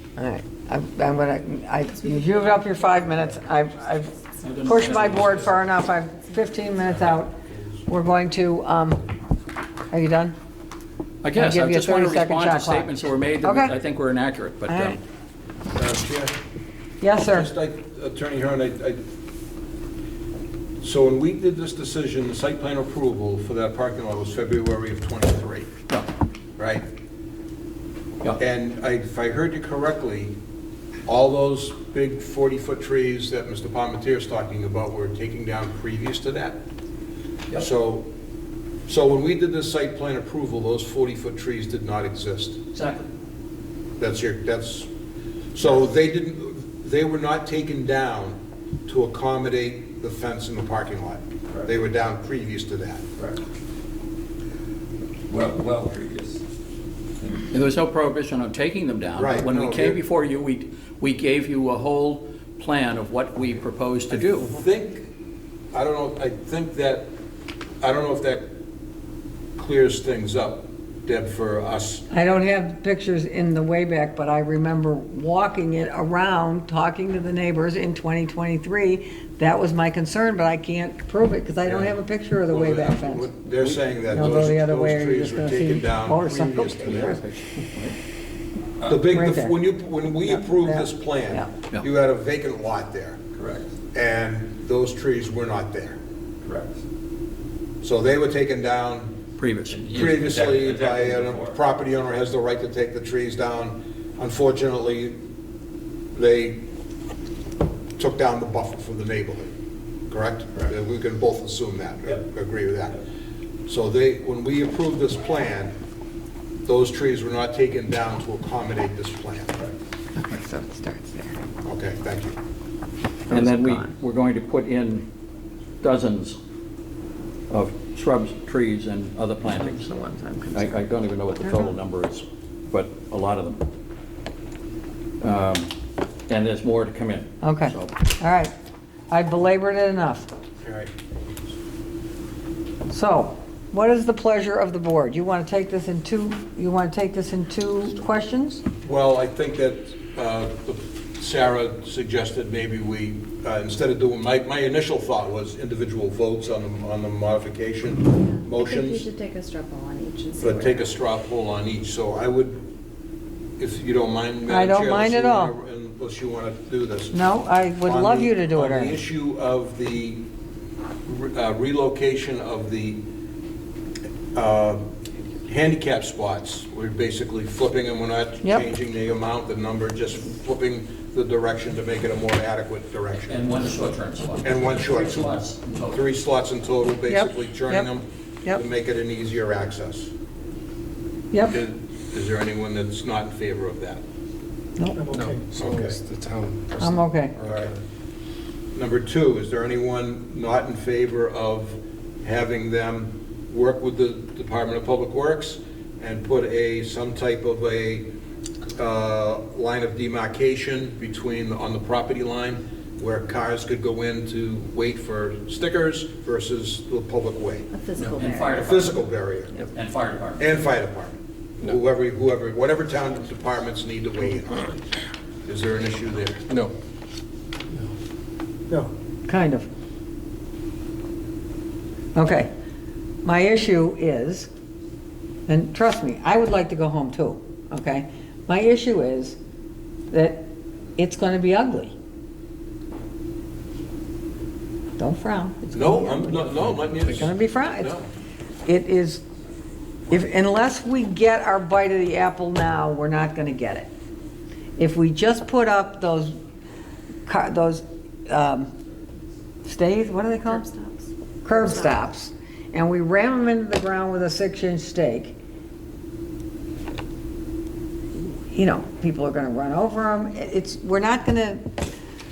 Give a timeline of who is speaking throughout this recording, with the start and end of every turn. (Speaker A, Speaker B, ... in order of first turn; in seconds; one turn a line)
Speaker A: 0.2-4.1
Speaker B: 1.8-7.0
Speaker C: 4.4-5.5
Speaker A: 4.6-7.3
Speaker D: 7.0-7.8
Speaker A: 7.9-9.1
Speaker A: 9.9-10.3
Speaker C: 11.2-15.0
Speaker A: 11.3-13.7
Speaker A: 14.7-15.0
Speaker D: 15.7-16.3
Speaker A: 17.0-17.5
Speaker D: 17.1-19.0
Speaker D: 20.8-25.7
Speaker D: 26.6-26.9
Speaker D: 28.4-30.3
Speaker D: 31.1-36.6
Speaker D: 37.5-38.1
Speaker D: 38.9-42.6
Speaker C: 42.7-43.1
Speaker D: 44.0-44.9
Speaker D: 45.5-53.0
Speaker E: 55.3-56.4
Speaker C: 57.5-64.6
Speaker D: 59.1-60.0
Speaker D: 64.1-65.1
Speaker D: 65.7-67.1
Speaker D: 67.8-68.5
Speaker D: 69.6-72.0
Speaker A: 72.1-83.3
Speaker D: 81.6-87.2
Speaker C: 83.5-84.6
Speaker A: 84.1-87.3
Speaker C: 86.9-87.9
Speaker D: 88.8-93.2
Speaker A: 89.1-89.6
Speaker A: 90.2-91.5
Speaker E: 93.3-93.6
Speaker D: 93.9-96.0
Speaker E: 96.4-96.7
Speaker D: 97.8-99.1
Speaker C: 99.4-99.9
Speaker E: 99.7-101.6
Speaker D: 99.9-105.2
Speaker D: 106.1-106.6
Speaker D: 108.0-109.5
Speaker D: 110.1-113.0
Speaker D: 113.7-115.7
Speaker D: 116.7-119.6
Speaker A: 120.1-121.4
Speaker D: 121.6-122.3
Speaker A: 123.3-123.9
Speaker C: 123.3-125.0
Speaker C: 125.8-126.4
Speaker C: 127.5-129.9
Speaker A: 129.5-131.7
Speaker C: 130.5-133.7
Speaker C: 135.2-135.7
Speaker C: 136.3-137.9
Speaker A: 137.4-138.5
Speaker A: 139.1-140.3
Speaker D: 140.6-140.9
Speaker A: 142.9-148.6
Speaker D: 148.8-159.1
Speaker B: 158.2-161.0
Speaker D: 160.4-162.6
Speaker D: 163.6-167.2
Speaker A: 164.5-165.5
Speaker A: 167.1-169.0
Speaker D: 167.8-170.2
Speaker D: 171.1-173.0
Speaker D: 174.3-174.8
Speaker D: 175.4-183.5
Speaker C: 183.3-186.0
Speaker D: 184.4-190.1
Speaker A: 187.1-187.9
Speaker D: 191.5-194.0
Speaker A: 194.8-195.0
Speaker F: 195.0-197.7
Speaker D: 195.1-196.0
Speaker A: 196.8-197.4
Speaker D: 197.4-197.7
Speaker D: 198.7-208.1
Speaker D: 208.8-217.6
Speaker B: 217.7-218.7
Speaker C: 218.0-219.0
Speaker D: 218.5-219.6
Speaker C: 219.5-220.5
Speaker D: 220.4-224.8
Speaker D: 225.4-226.5
Speaker A: 229.3-229.7
Speaker A: 232.1-232.5
Speaker A: 233.2-234.5
Speaker A: 235.5-239.4
Speaker A: 240.1-241.9
Speaker A: 245.0-248.0
Speaker D: 245.7-248.0
Speaker A: 248.6-249.2
Speaker A: 250.1-253.9
Speaker A: 254.8-256.4
Speaker A: 257.2-258.7
Speaker A: 259.6-260.6
Speaker B: 260.3-261.1
Speaker A: 261.4-265.3
Speaker B: 261.7-262.0
Speaker A: 268.2-271.6